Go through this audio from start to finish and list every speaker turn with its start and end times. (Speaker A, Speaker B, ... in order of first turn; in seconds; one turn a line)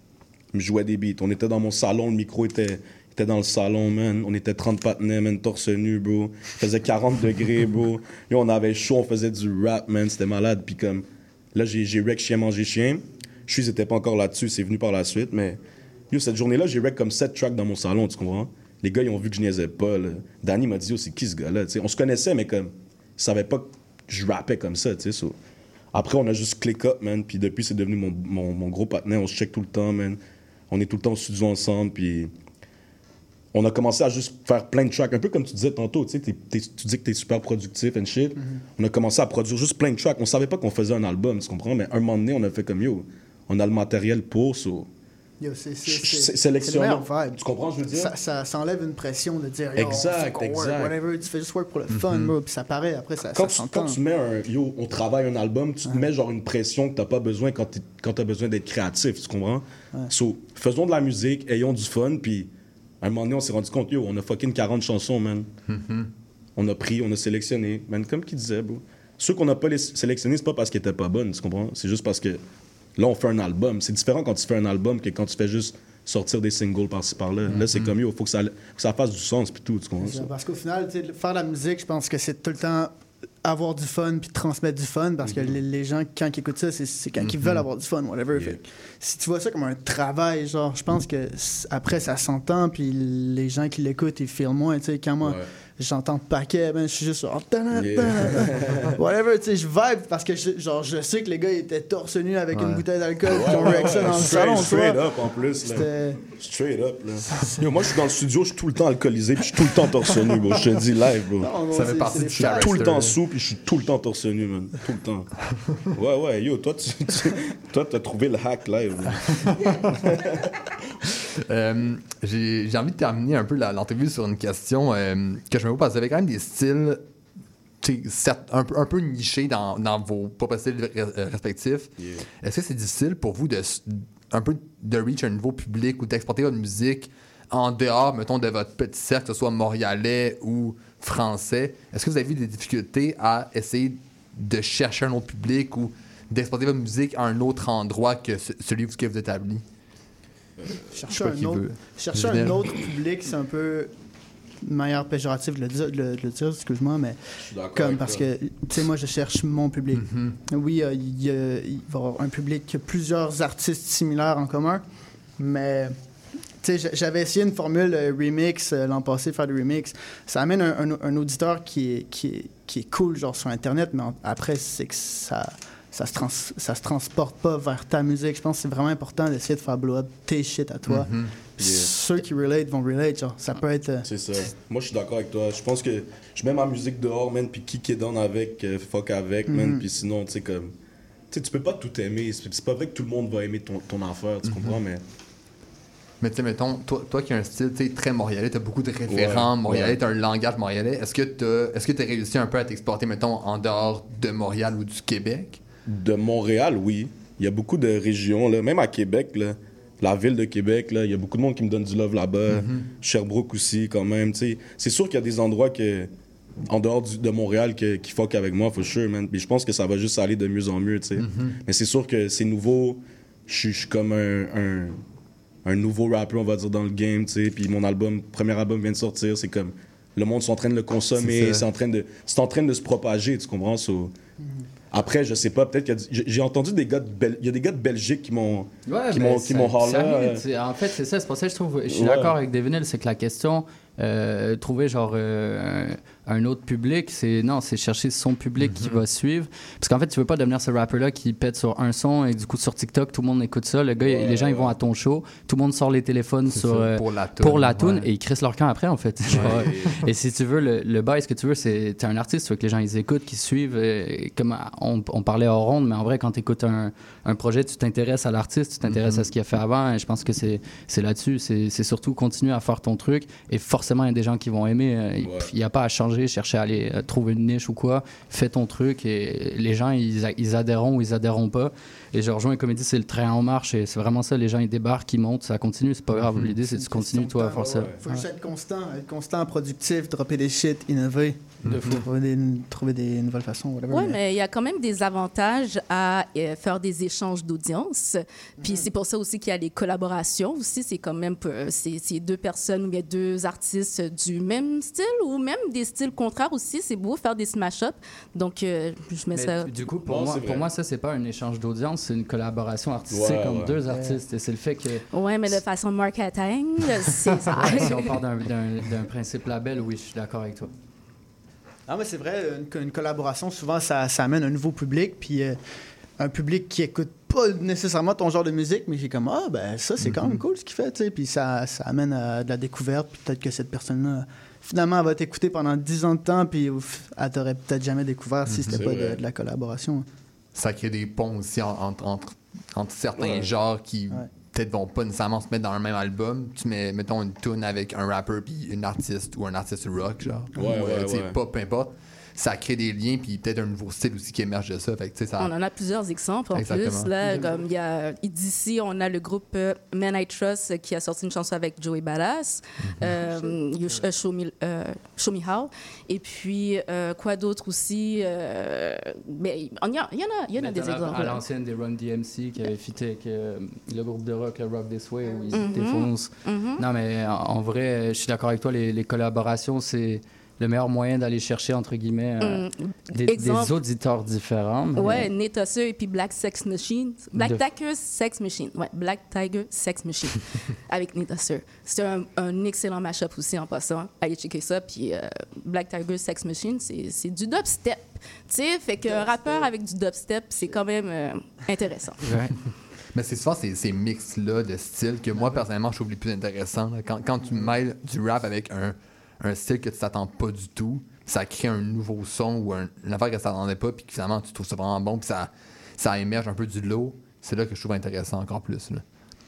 Speaker A: 0.5-25.4
Speaker A: 25.9-30.2
Speaker A: 30.7-32.3
Speaker A: 33.5-44.9
Speaker B: 38.4-38.6
Speaker B: 45.4-54.0
Speaker A: 45.9-48.1
Speaker A: 49.8-50.9
Speaker C: 51.9-52.3
Speaker A: 53.3-62.5
Speaker A: 63.0-65.5
Speaker C: 65.7-66.1
Speaker A: 66.6-72.4
Speaker A: 73.0-80.2
Speaker C: 77.5-77.9
Speaker B: 80.0-82.9
Speaker B: 83.4-106.2
Speaker C: 87.2-87.7
Speaker A: 97.8-98.9
Speaker C: 102.5-102.8
Speaker A: 103.3-111.5
Speaker B: 107.4-107.8
Speaker B: 111.4-113.0
Speaker C: 111.7-113.2
Speaker A: 112.2-115.3
Speaker A: 116.0-119.5
Speaker C: 121.4-127.0
Speaker C: 127.8-149.6
Speaker A: 132.0-132.3
Speaker B: 150.9-153.9
Speaker C: 151.1-152.6
Speaker B: 154.6-157.2
Speaker A: 157.4-158.2
Speaker B: 157.7-164.8
Speaker C: 159.9-160.4
Speaker B: 165.4-165.9
Speaker B: 166.6-184.1
Speaker C: 180.9-181.3
Speaker A: 181.6-181.9
Speaker A: 184.1-190.7
Speaker B: 189.5-189.8
Speaker A: 191.3-195.0
Speaker C: 194.4-194.8
Speaker C: 196.2-205.6
Speaker A: 199.1-200.0
Speaker A: 205.9-216.1
Speaker C: 212.5-212.9
Speaker A: 216.7-225.0
Speaker C: 221.2-221.6
Speaker A: 225.7-234.1
Speaker C: 231.2-231.7
Speaker A: 234.9-240.4
Speaker D: 238.9-287.9
Speaker A: 241.9-242.4
Speaker C: 248.6-249.0
Speaker A: 254.0-254.8
Speaker C: 256.5-258.1
Speaker A: 259.3-260.0
Speaker C: 259.4-259.6
Speaker C: 268.9-269.3
Speaker A: 275.2-275.5
Speaker C: 286.2-286.5
Speaker B: 286.7-294.2
Speaker A: 287.6-288.0
Speaker C: 291.6-292.1
Speaker E: 293.9-309.7
Speaker B: 298.6-298.9
Speaker D: 309.3-315.0
Speaker A: 310.1-310.7
Speaker A: 313.1-313.8
Speaker B: 313.9-314.2
Speaker E: 315.1-318.1
Speaker D: 317.6-320.7
Speaker B: 321.9-325.6
Speaker B: 326.2-340.1
Speaker C: 330.0-330.4
Speaker C: 338.5-338.9
Speaker A: 338.7-339.2
Speaker C: 340.6-355.5
Speaker A: 343.2-343.5
Speaker A: 350.6-351.4
Speaker E: 355.4-371.4
Speaker C: 356.5-357.1
Speaker B: 357.2-357.6
Speaker C: 362.8-363.1
Speaker D: 370.6-385.3
Speaker E: 375.5-376.8
Speaker E: 382.4-383.8
Speaker E: 385.0-402.3
Speaker D: 387.3-387.6
Speaker D: 402.2-402.5
Speaker C: 403.1-419.0
Speaker B: 407.4-407.7